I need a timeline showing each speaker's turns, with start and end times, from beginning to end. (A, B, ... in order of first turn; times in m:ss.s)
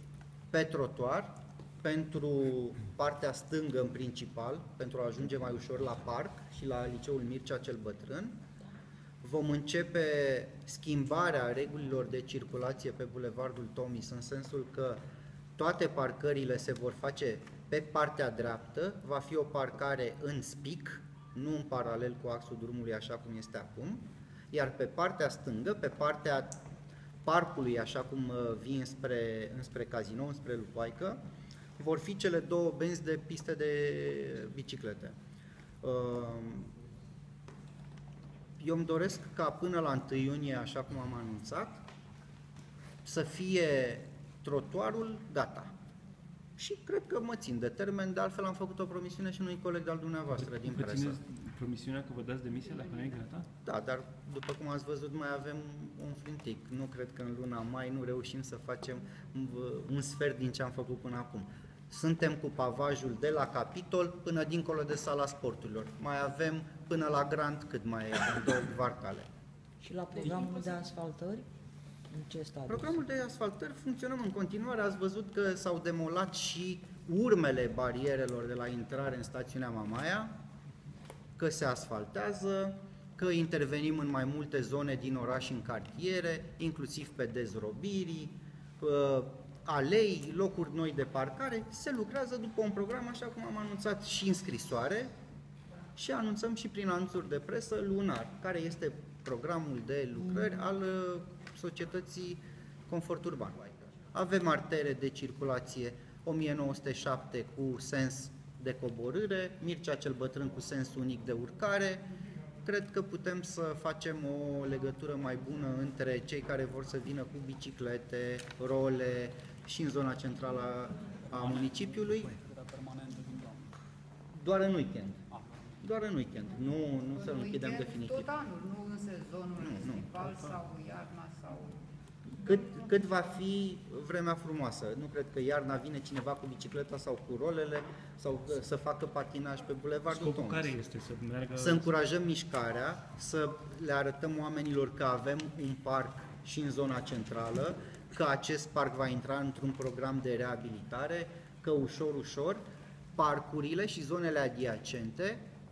0:00.5-0:08.4 A
0:09.2-0:15.0 A
0:15.6-0:26.6 A
0:27.2-0:31.2 A
0:31.8-0:35.2 A
0:35.8-0:36.7 A
0:38.6-0:41.8 A
0:43.0-0:45.7 A
0:46.6-0:51.2 A
0:50.4-0:53.5 B
0:53.6-1:09.3 A
1:09.8-1:11.4 C
1:12.1-1:13.0 C
1:12.7-1:20.3 A
1:21.4-1:35.1 A
1:35.9-1:52.0 A
1:52.6-2:02.4 A
2:01.4-2:01.7 D
2:02.4-2:03.7 D
2:04.3-2:05.2 A
2:05.8-2:08.3 A
2:07.1-2:11.8 D
2:09.6-2:10.1 A
2:12.4-2:20.8 A
2:12.5-2:12.8 D
2:20.1-2:21.9 B
2:21.6-2:32.6 A
2:33.1-2:35.4 A